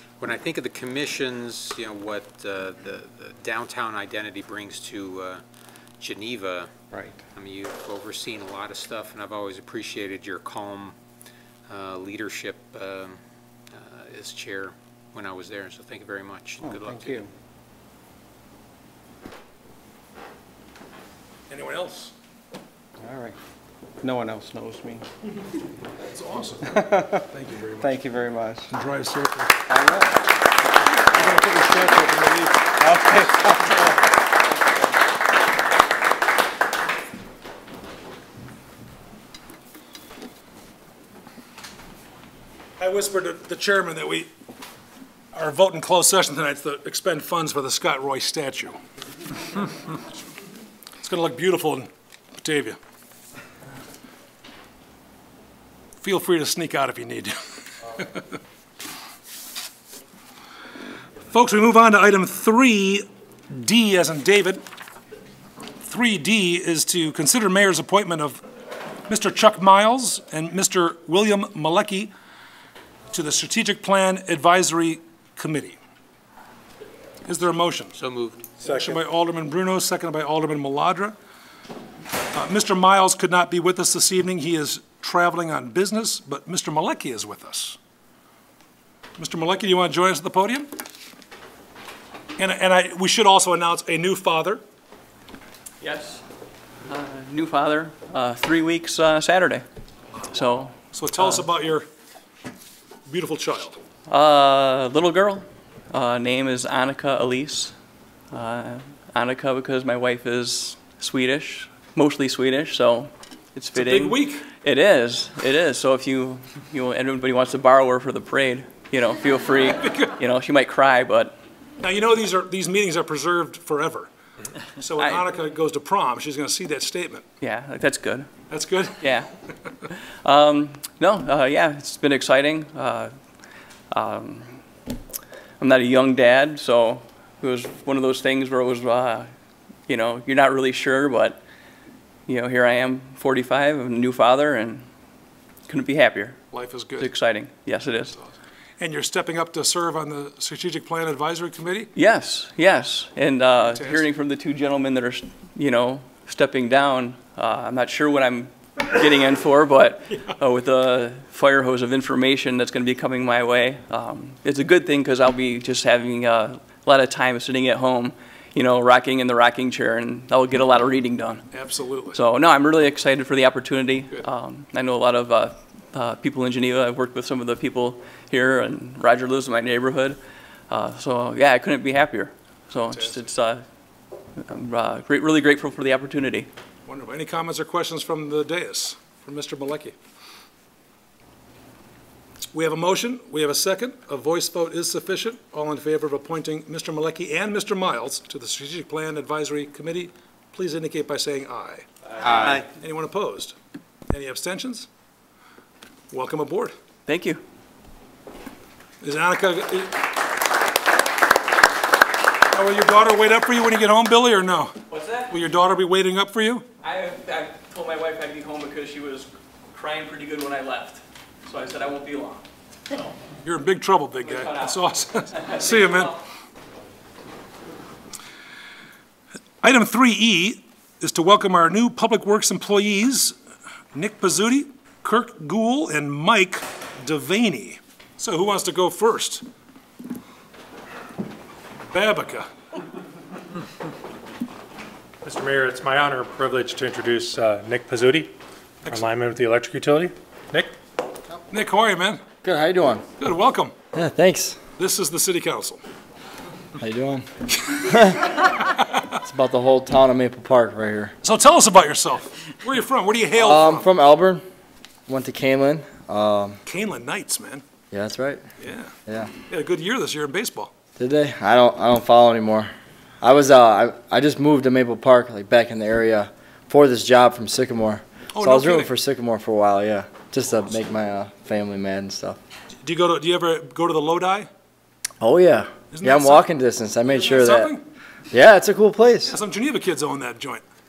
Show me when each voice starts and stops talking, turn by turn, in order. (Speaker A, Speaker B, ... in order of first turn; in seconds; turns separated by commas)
Speaker A: 0.2-5.4, Speaker A: 6.0-11.0, Speaker A: 11.7-13.2, Speaker A: 13.7-17.3, Speaker B: 16.6-17.3, Speaker C: 21.5-22.1, Speaker B: 23.1-23.3, Speaker B: 24.0-25.1, Speaker C: 26.1-28.0, Speaker B: 26.8-27.2, Speaker B: 27.8-28.6, Speaker C: 28.7-29.7, Speaker B: 29.7-30.0, Speaker C: 31.1-32.7, Speaker B: 32.8-33.5, Speaker C: 42.8-44.3, Speaker C: 45.3-48.8, Speaker C: 51.0-52.8, Speaker C: 56.0-57.3, Speaker C: 57.9-58.2, Speaker C: 61.3-64.6, Speaker C: 65.8-68.4, Speaker C: 69.1-72.1, Speaker C: 73.1-75.8, Speaker C: 77.2-78.0, Speaker A: 78.0-78.5, Speaker C: 78.6-81.2, Speaker C: 82.3-87.8, Speaker C: 89.2-90.7, Speaker C: 92.4-94.6, Speaker D: 95.8-96.2, Speaker D: 96.9-99.6, Speaker D: 100.3-101.4, Speaker C: 100.9-101.9, Speaker C: 103.1-103.8, Speaker D: 104.1-107.7, Speaker D: 108.3-121.4, Speaker C: 113.7-114.5, Speaker C: 119.8-120.1, Speaker C: 121.8-124.1, Speaker C: 124.8-127.2, Speaker D: 125.0-125.2, Speaker D: 127.4-128.3, Speaker C: 128.5-129.0, Speaker D: 129.0-129.3, Speaker D: 129.9-133.1, Speaker D: 133.9-134.6, Speaker D: 135.6-139.3, Speaker D: 139.9-141.4, Speaker D: 142.3-144.8, Speaker D: 145.7-146.4, Speaker C: 146.5-147.1, Speaker D: 147.0-148.2, Speaker C: 148.8-151.9, Speaker D: 151.9-171.5, Speaker C: 153.6-154.1, Speaker C: 171.5-172.2, Speaker D: 172.1-180.2, Speaker D: 180.7-183.6, Speaker C: 182.9-183.3, Speaker D: 184.4-186.5, Speaker C: 186.9-189.9, Speaker C: 192.5-203.6, Speaker A: 202.2-202.6, Speaker C: 204.1-204.9, Speaker C: 206.1-206.7, Speaker D: 207.1-207.4, Speaker C: 209.0-210.0, Speaker C: 212.5-214.8, Speaker D: 214.9-215.3, Speaker C: 215.3-216.6, Speaker D: 216.8-222.4, Speaker C: 223.4-226.1, Speaker D: 224.2-226.2, Speaker C: 229.6-233.4, Speaker C: 233.9-239.4, Speaker C: 241.9-242.5, Speaker E: 245.2-248.3, Speaker E: 248.9-250.7, Speaker C: 251.5-252.2, Speaker F: 252.4-253.0, Speaker C: 253.2-253.7, Speaker F: 253.9-254.6, Speaker C: 254.8-255.8, Speaker F: 256.8-258.5, Speaker F: 259.2-261.1, Speaker C: 261.2-263.9, Speaker F: 263.4-264.4, Speaker F: 265.1-266.6, Speaker C: 266.7-267.6, Speaker F: 267.9-268.4, Speaker C: 268.6-268.9, Speaker F: 269.1-269.3, Speaker C: 269.5-270.7, Speaker F: 271.0-272.7, Speaker F: 273.2-282.4, Speaker C: 278.3-278.9, Speaker C: 282.8-284.5, Speaker F: 285.2-287.8, Speaker C: 285.9-286.5, Speaker C: 287.1-287.8, Speaker F: 288.3-289.4, Speaker C: 289.2-290.6